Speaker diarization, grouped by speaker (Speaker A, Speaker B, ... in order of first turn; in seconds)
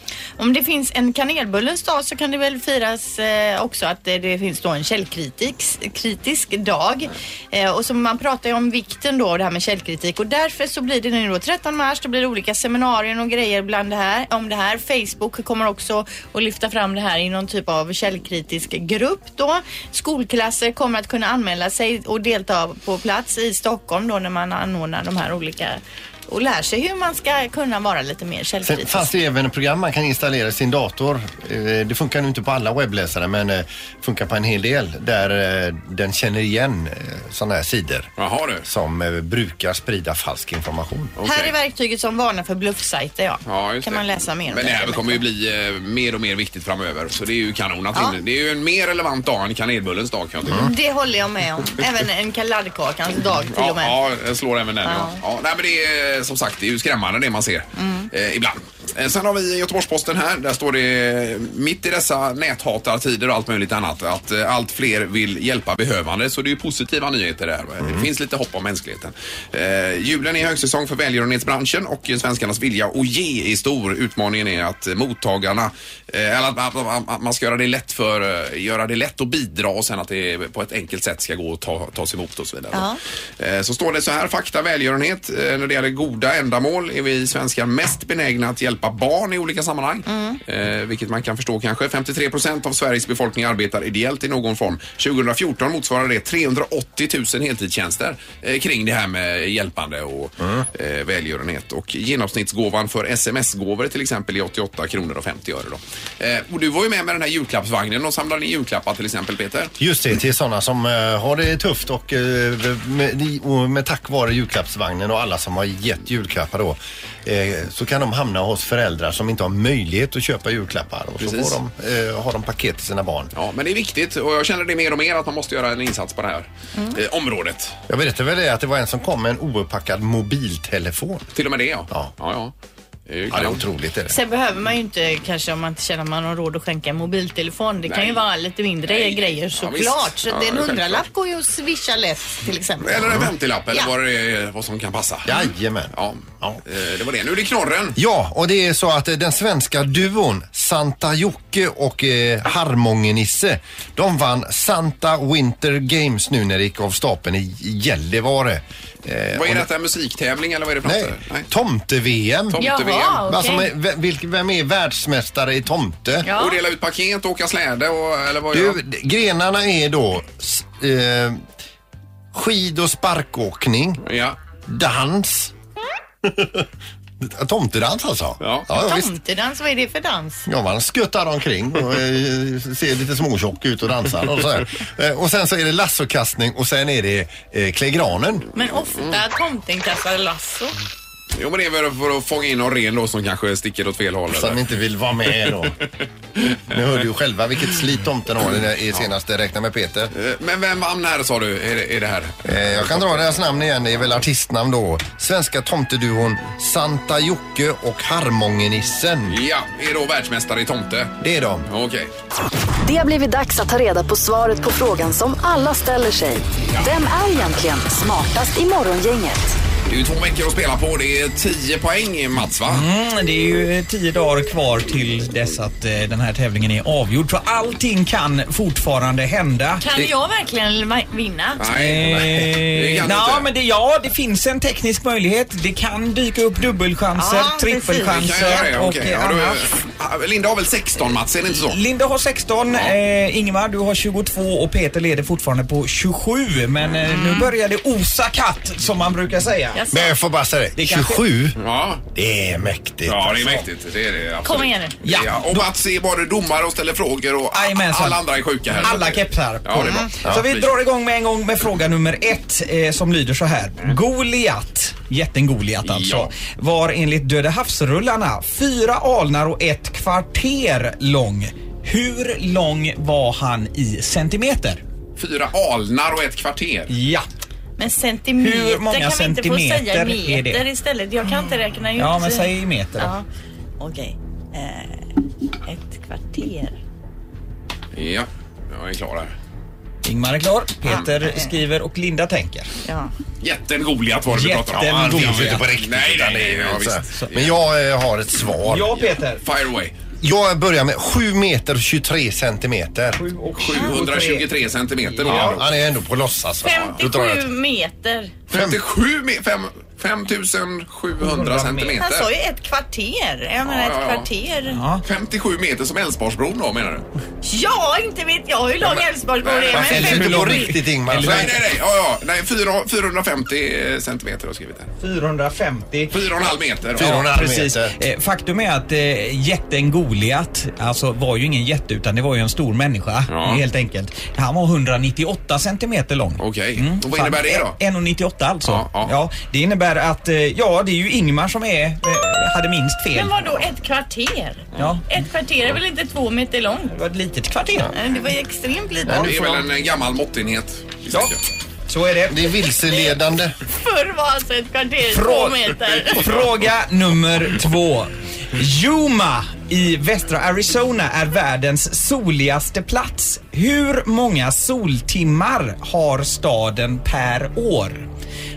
Speaker A: 0.4-29.1, 41.2-45.2, 50.5-54.0, 54.8-55.2, 57.8-58.1, 82.7-83.0, 90.1-90.4, 134.1-143.9, 162.6-163.7, 166.2-166.6, 178.7-180.5, 188.5-190.8, 229.8-231.6, 237.1-238.7, 247.1-247.5, 249.7-250.1, 254.4-254.9, 259.8-260.1, 277.8-283.2, 283.8-285.1, 285.6-286.8, 290.9-291.5, 292.9-293.1, 306.6-308.4, 312.0-314.8, 317.4-320.7, 343.1-346.9, 347.9-349.6, 352.9-353.1, 353.7-356.3
Speaker B: 28.6-38.1, 38.6-41.1, 67.8-68.1, 109.8-123.3, 127.9-131.3, 133.3-134.2, 145.2-146.6, 147.9-159.7, 160.8-162.7, 163.2-166.3, 168.5-171.4, 172.3-174.0, 174.7-175.5, 176.2-176.7, 177.2-179.1, 180.4-188.5, 194.3-195.8, 196.7-200.1, 202.4-209.4, 211.2-211.7, 249.9-251.6, 252.1-253.6, 294.7-298.9, 300.2-303.2, 305.2-307.5, 308.5-308.8, 319.7-321.6, 326.9-327.9, 349.1-349.5, 352.3-353.5
Speaker C: 38.2-38.6, 41.1-41.5, 43.5-50.7, 53.5-109.7, 121.2-121.6, 123.3-127.8, 131.3-132.5, 133.1-133.6, 137.8-138.2, 138.8-141.1, 142.8-145.3, 145.9-148.0, 159.3-161.5, 162.5-163.2, 166.3-168.8, 174.0-174.4, 178.4-178.7, 191.3-194.6, 196.4-196.7, 200.1-203.4, 209.3-211.1, 211.7-212.1, 219.8-222.8, 231.6-233.5, 238.1-241.8, 251.6-252.0, 253.1-260.7, 265.8-266.3, 275.1-276.9, 287.9-289.3, 293.4-297.6, 299.0-299.9, 303.6-305.7, 308.5-312.3, 313.6-314.3, 315.0-317.0, 318.9-320.0, 321.2-324.9, 326.1-327.2, 333.3-333.6, 336.4-337.8, 338.6-339.1, 349.1-351.4
Speaker D: 212.8-219.6
Speaker E: 222.7-229.9, 231.7-239.6, 241.6-249.8, 250.8-251.2, 255.0-255.7, 257.5-258.2, 258.8-274.8, 276.9-277.3, 278.4-280.6, 282.0-283.1, 290.0-292.7, 294.3-295.6, 298.7-299.4, 303.1-304.5, 305.0-305.6, 311.2-312.0, 314.7-315.0, 319.8-321.5, 325.0-326.1, 327.0-343.3, 344.8-345.1, 346.9-347.9, 351.9-352.5, 355.1-368.1